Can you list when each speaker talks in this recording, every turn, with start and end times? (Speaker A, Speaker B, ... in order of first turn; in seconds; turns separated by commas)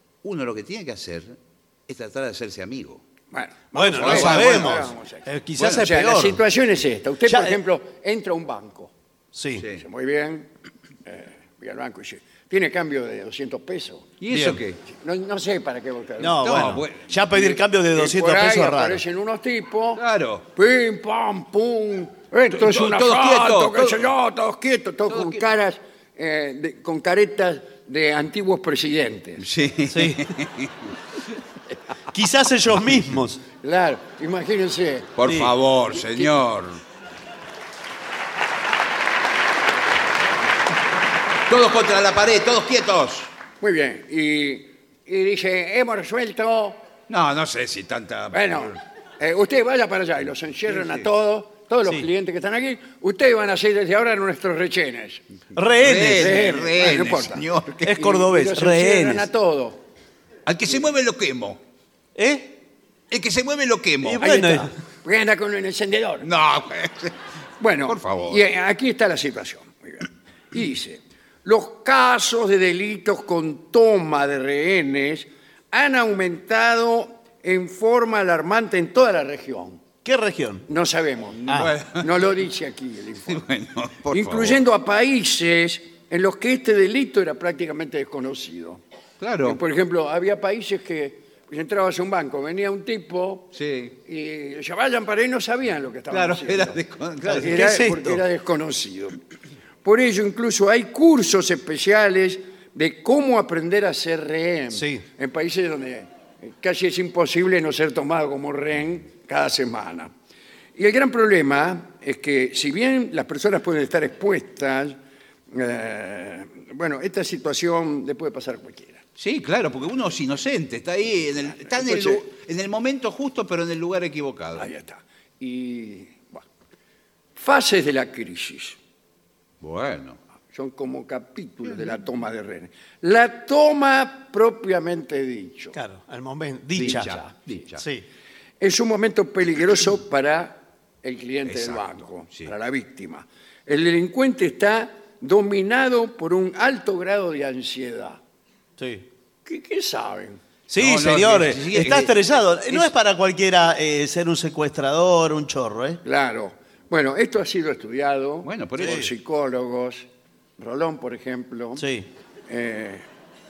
Speaker A: 0.2-1.4, Speaker A: 1.9-3.0, Speaker B: 3.3-8.9, Speaker C: 3.7-6.4, Speaker A: 4.0-4.9, Speaker A: 5.6-5.9, Speaker C: 7.2-7.6, Speaker C: 9.3-9.7, Speaker A: 9.6-9.8, Speaker B: 9.7-10.5, Speaker B: 11.1-14.1, Speaker A: 14.2-14.8, Speaker C: 14.3-14.6, Speaker B: 14.9-20.0, Speaker C: 16.2-19.0, Speaker A: 16.4-17.1, Speaker A: 19.9-20.4, Speaker B: 20.5-29.4, Speaker A: 22.5-24.1, Speaker A: 25.1-25.4, Speaker A: 29.4-30.9, Speaker C: 29.9-30.3, Speaker C: 32.1-33.4, Speaker B: 33.6-35.2, Speaker A: 35.2-36.8, Speaker C: 35.2-35.5, Speaker A: 41.5-43.3, Speaker B: 43.6-46.8, Speaker A: 47.1-48.7, Speaker B: 48.3-55.2, Speaker A: 50.8-51.0, Speaker C: 55.5-56.5, Speaker A: 55.8-57.9, Speaker B: 56.1-59.8, Speaker C: 57.8-59.3, Speaker A: 60.5-61.6, Speaker C: 62.1-62.6, Speaker A: 63.1-64.2, Speaker C: 64.0-64.7, Speaker B: 64.2-66.3, Speaker A: 66.2-67.2, Speaker B: 67.6-79.8, Speaker A: 67.9-68.4, Speaker C: 80.0-80.7, Speaker B: 80.7-83.4, Speaker A: 81.4-82.1, Speaker C: 81.5-81.7, Speaker A: 83.3-84.6, Speaker B: 84.1-88.8, Speaker A: 89.2-89.6, Speaker B: 89.4-93.5, Speaker A: 93.5-94.0, Speaker B: 94.0-99.2, Speaker A: 96.1-97.7, Speaker C: 97.3-98.2, Speaker B: 99.8-110.1, Speaker C: 104.7-105.0, Speaker B: 110.7-115.0, Speaker B: 115.5-119.0, Speaker A: 119.2-124.7, Speaker B: 121.7-122.2, Speaker B: 124.6-126.4, Speaker B: 127.3-128.8, Speaker A: 129.6-130.2, Speaker B: 130.5-135.8, Speaker C: 135.7-137.1, Speaker A: 136.8-137.8, Speaker B: 136.8-137.3, Speaker C: 137.8-138.1, Speaker B: 138.6-148.2, Speaker A: 141.4-142.5, Speaker C: 148.8-149.1, Speaker B: 149.4-150.4, Speaker C: 150.7-156.0, Speaker A: 150.8-152.1, Speaker B: 156.0-160.1, Speaker A: 158.4-159.1, Speaker C: 158.8-159.1, Speaker B: 160.6-161.8, Speaker C: 161.8-162.1, Speaker B: 162.5-163.0